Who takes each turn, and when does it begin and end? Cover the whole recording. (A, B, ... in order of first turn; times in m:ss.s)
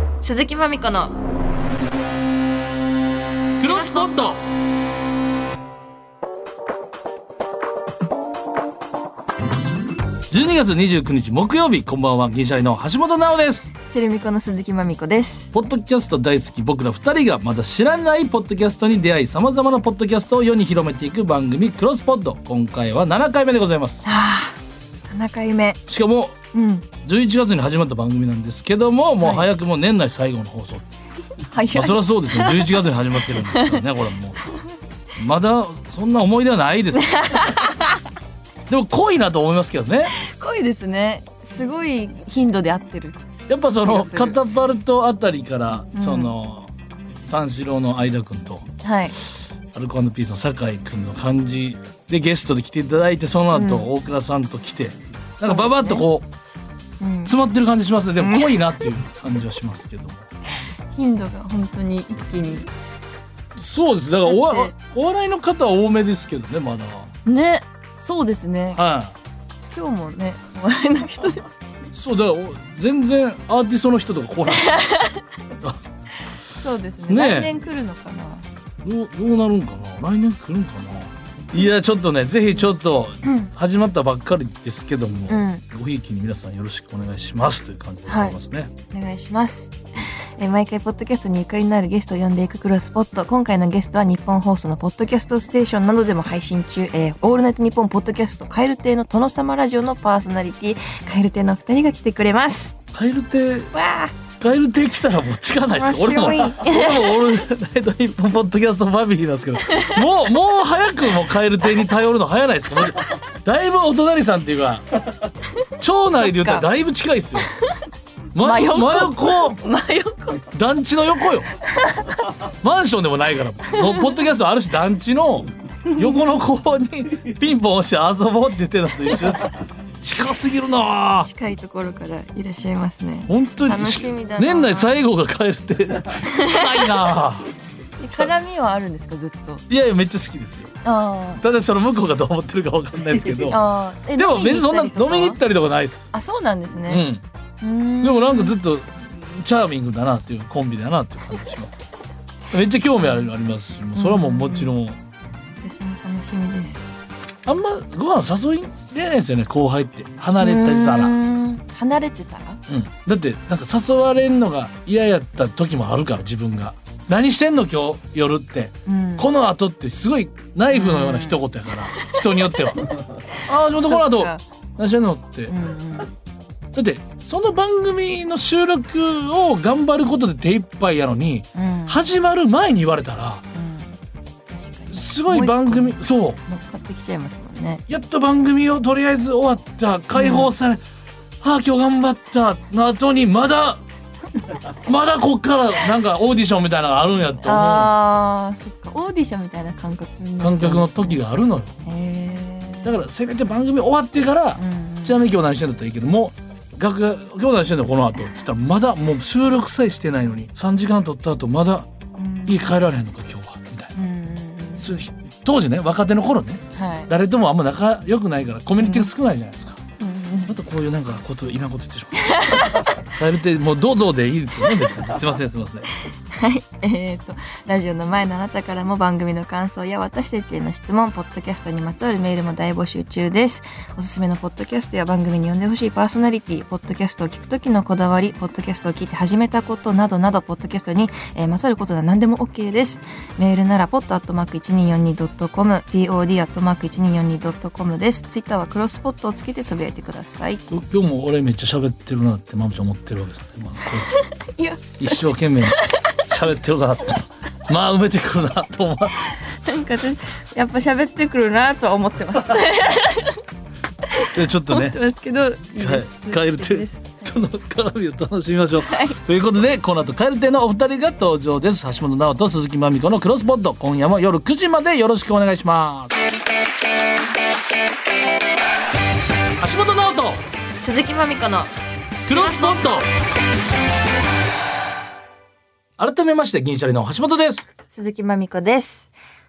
0:00.2-0:01.1 A
0:03.6-0:04.4 B
0:03.6-0:04.1 A
0:10.3-0:13.7 B
0:13.8-0:15.5 A
0:15.5-0:24.0 B
0:24.0-0:24.6 A
0:25.1-0:25.8 A
0:25.9-0:26.4 B
0:26.5-0:26.9 A
0:27.0-0:30.9 B
0:29.2-0:29.5 A
0:31.5-0:33.8 A
0:31.7-0:34.4 B
0:35.2-0:37.4 B
0:37.0-0:38.0 A
0:38.7-0:40.1 B
0:40.2-0:43.3 A
0:43.5-0:46.7 B
0:43.8-0:44.4 A
0:46.0-0:46.3 A
0:47.2-0:48.7 B
0:48.8-0:49.1 A
0:49.7-0:56.3 B
0:53.5-0:53.9 A
0:55.4-0:56.1 A
0:57.0-0:57.4 A
0:57.3-1:00.3 B
0:58.2-0:58.7 A
1:00.9-1:02.7 A
1:03.6-1:07.1 B
1:04.2-1:04.7 A
1:07.3-1:08.8 A
1:08.8-1:09.1 B
1:09.7-1:11.9 A
1:12.0-1:14.8 B
1:14.5-1:15.2 A
1:16.5-1:18.4 A
1:17.0-1:17.5 B
1:18.8-1:28.7 B
1:23.2-1:23.5 A
1:25.3-1:25.6 A
1:28.1-1:28.4 A
1:28.9-1:42.8 A
1:42.9-1:43.7 B
1:43.7-1:44.2 A
1:44.4-1:54.9 B
1:45.7-1:47.3 A
1:49.7-1:50.0 A
1:55.8-1:57.5 B
1:56.4-1:56.6 A
1:58.4-1:59.6 B
1:58.4-2:00.5 A
2:00.5-2:01.5 B
2:01.8-2:02.2 A
2:02.6-2:11.3 B
2:03.8-2:04.0 A
2:05.9-2:06.3 A
2:11.3-2:15.0 A
2:13.3-2:17.5 B
2:16.2-2:16.9 A
2:18.0-2:19.6 A
2:19.7-2:20.7 B
2:20.8-2:21.4 A
2:21.4-2:23.6 B
2:23.5-2:25.4 A
2:24.2-2:26.1 B
2:26.1-2:27.0 A
2:26.9-2:27.2 B
2:27.6-2:28.6 A
2:28.0-2:31.8 B
2:32.5-2:35.0 B
2:34.0-2:34.8 A
2:35.6-2:36.8 A
2:37.5-2:41.1 B
2:40.4-2:42.6 A
2:42.7-2:55.5 B
2:48.9-2:49.3 A
2:50.7-2:51.4 A
2:52.0-2:52.7 A
2:53.3-2:54.4 A
2:55.5-2:56.1 A
2:56.7-3:03.4 B
3:01.6-3:02.1 A
3:03.5-3:04.0 A
3:04.5-3:07.8 A
3:04.9-3:06.4 B
3:07.9-3:10.8 B
3:10.1-3:10.5 A
3:11.4-3:13.8 B
3:14.8-3:17.9 B
3:17.4-3:21.2 A
3:20.4-3:21.7 B
3:21.8-3:23.0 A
3:22.8-3:31.9 B
3:24.6-3:25.2 A
3:32.2-3:32.7 A
3:32.5-3:33.9 B
3:34.0-3:34.9 A
3:34.8-3:39.8 B
3:36.7-3:37.1 A
3:38.8-3:39.1 A
3:40.0-3:40.5 A
3:40.5-3:45.9 B
3:42.2-3:42.8 A
3:46.3-4:10.6 A
4:10.7-4:14.2 B
4:14.2-4:16.0 A
4:15.0-4:19.2 B
4:19.3-4:23.4 A
4:24.1-4:27.4 A
4:24.3-4:25.0 B
4:25.8-4:36.2 B
4:28.8-4:29.2 A
4:39.6-4:40.4 B
4:40.8-4:41.7 A
4:42.3-4:43.1 B
4:42.3-4:43.0 A
4:46.0-4:47.6 B
4:47.9-4:49.1 A